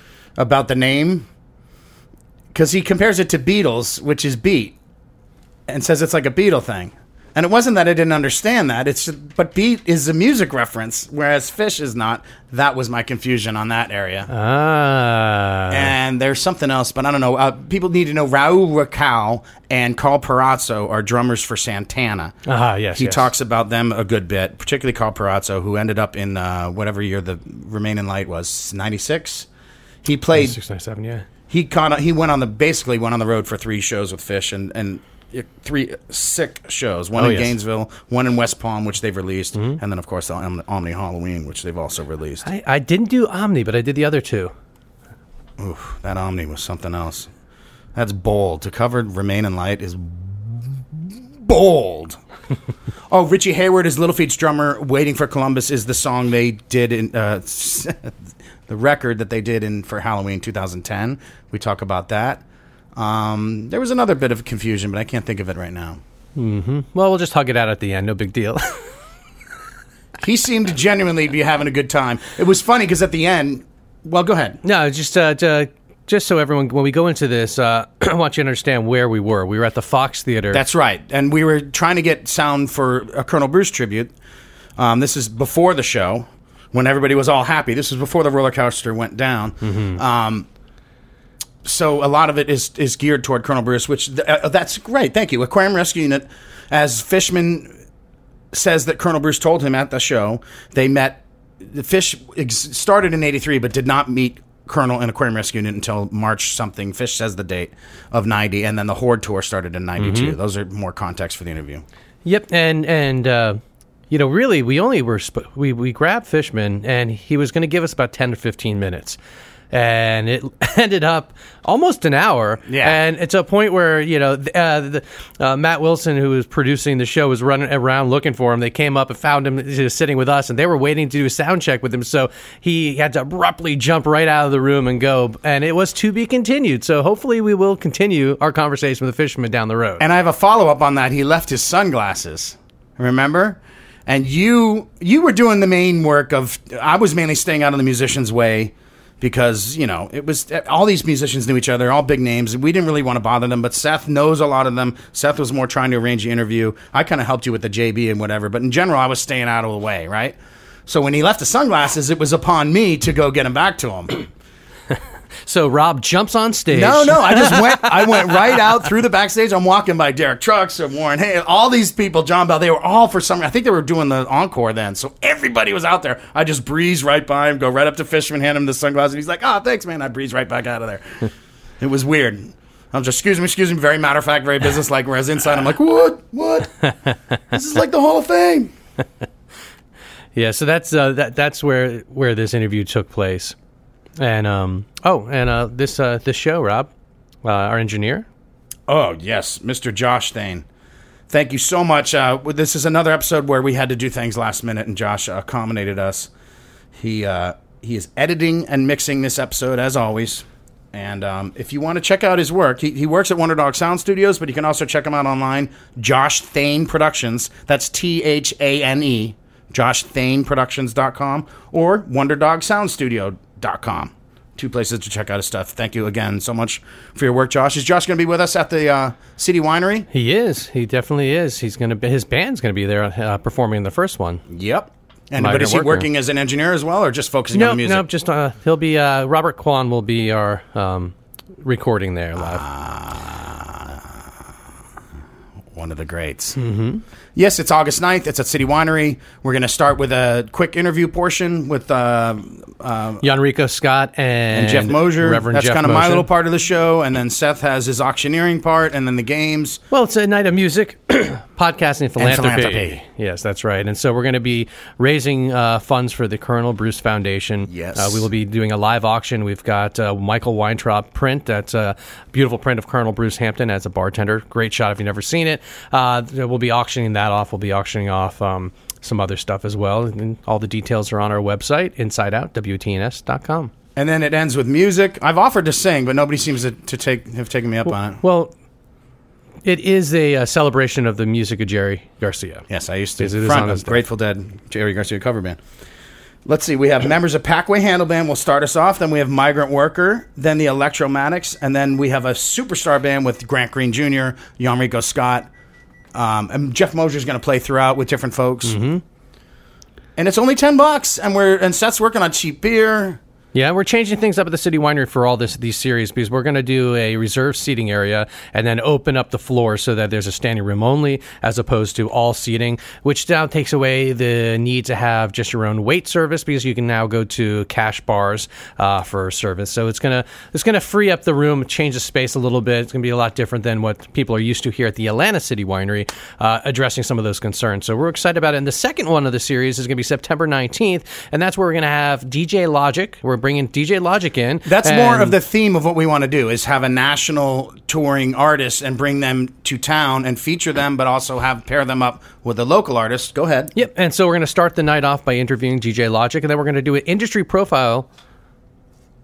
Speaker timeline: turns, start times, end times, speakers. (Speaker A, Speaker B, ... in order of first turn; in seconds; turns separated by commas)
Speaker A: 0.4-1.3, Speaker A: 2.5-4.8, Speaker A: 5.7-14.3, Speaker B: 14.3-15.9, Speaker A: 15.7-22.3, Speaker B: 22.5-23.3, Speaker A: 22.9-29.5, Speaker A: 30.1-30.6, Speaker B: 30.4-31.3, Speaker A: 31.5-42.5, Speaker B: 37.2-37.5, Speaker B: 42.5-44.5, Speaker A: 45.6-47.3, Speaker A: 48.0-52.2, Speaker A: 53.1-62.4, Speaker A: 63.0-66.0, Speaker B: 66.4-68.8, Speaker A: 70.2-74.6, Speaker B: 74.6-80.6, Speaker A: 80.5-84.1, Speaker A: 84.8-90.5, Speaker B: 89.6-90.0, Speaker A: 91.7-97.7, Speaker A: 98.5-111.8, Speaker B: 110.0-110.4, Speaker B: 112.2-113.6, Speaker B: 114.1-119.2, Speaker B: 119.7-140.1, Speaker A: 122.7-123.0, Speaker A: 140.0-164.2, Speaker B: 165.5-168.5, Speaker A: 166.7-186.7, Speaker A: 187.5-188.7, Speaker B: 190.3-193.6, Speaker B: 194.2-196.9, Speaker B: 197.4-198.3, Speaker A: 198.9-200.7, Speaker A: 201.3-206.3, Speaker A: 207.0-230.1, Speaker B: 230.1-234.4, Speaker A: 234.5-238.1, Speaker B: 235.4-236.1, Speaker B: 237.5-242.7, Speaker A: 242.4-244.2, Speaker A: 245.7-246.6, Speaker B: 246.6-247.0, Speaker A: 247.3-253.2, Speaker B: 253.2-256.3, Speaker A: 254.5-259.8, Speaker B: 259.9-283.7, Speaker A: 262.2-263.0, Speaker A: 267.7-268.3, Speaker A: 284.0-288.2, Speaker B: 287.9-288.5, Speaker B: 289.6-292.7, Speaker A: 292.7-295.6, Speaker B: 293.2-294.0, Speaker A: 296.5-305.5, Speaker A: 306.1-308.8, Speaker B: 308.6-309.0, Speaker A: 310.2-313.2, Speaker B: 313.5-345.4, Speaker A: 344.7-353.7, Speaker B: 353.8-358.1